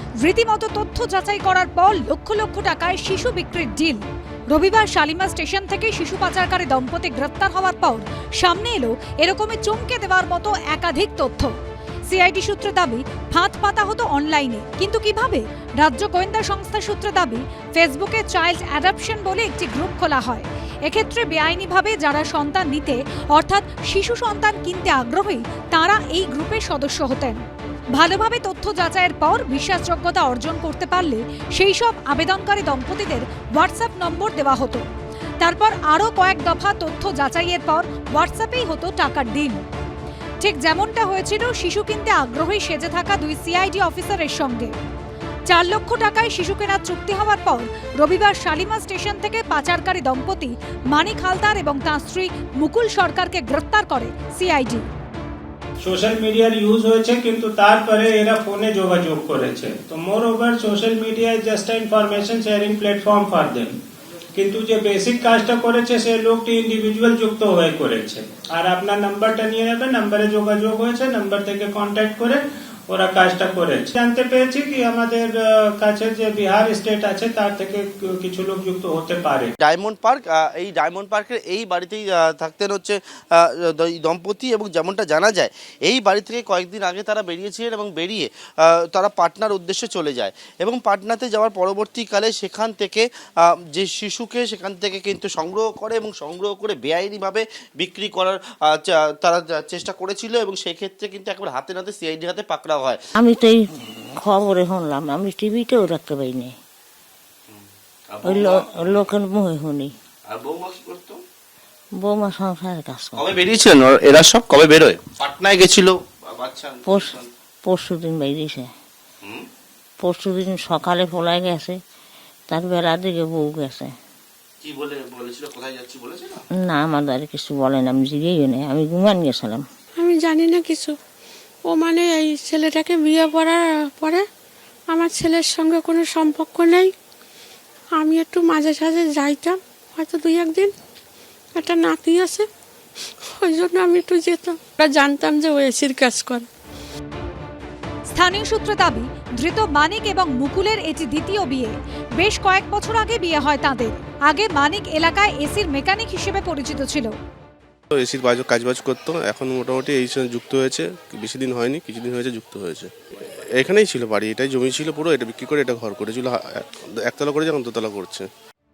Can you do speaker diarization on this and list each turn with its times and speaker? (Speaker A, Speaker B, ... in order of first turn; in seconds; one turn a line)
Speaker A: 0.2-11.5
Speaker A: 12.1-27.4
Speaker A: 27.9-34.8
Speaker A: 35.4-39.6
Speaker A: 40.4-44.7
Speaker A: 45.5-54.8
Speaker B: 55.8-63.7
Speaker B: 64.3-79.5
Speaker C: 79.6-103.0
Speaker D: 103.2-106.5
Speaker C: 107.5-109.0
Speaker D: 108.2-109.9
Speaker C: 110.3-111.2
Speaker D: 112.0-113.2
Speaker C: 113.2-117.3
Speaker D: 116.9-118.7
Speaker D: 120.0-121.8
Speaker D: 122.5-123.9
Speaker C: 124.6-126.5
Speaker D: 126.6-129.6
Speaker E: 130.0-130.9
Speaker E: 131.7-134.2
Speaker E: 134.9-136.9
Speaker E: 138.0-140.7
Speaker E: 141.5-142.5
Speaker E: 143.4-146.5
Speaker A: 148.1-157.1
Speaker F: 157.9-162.9
Speaker F: 163.6-168.3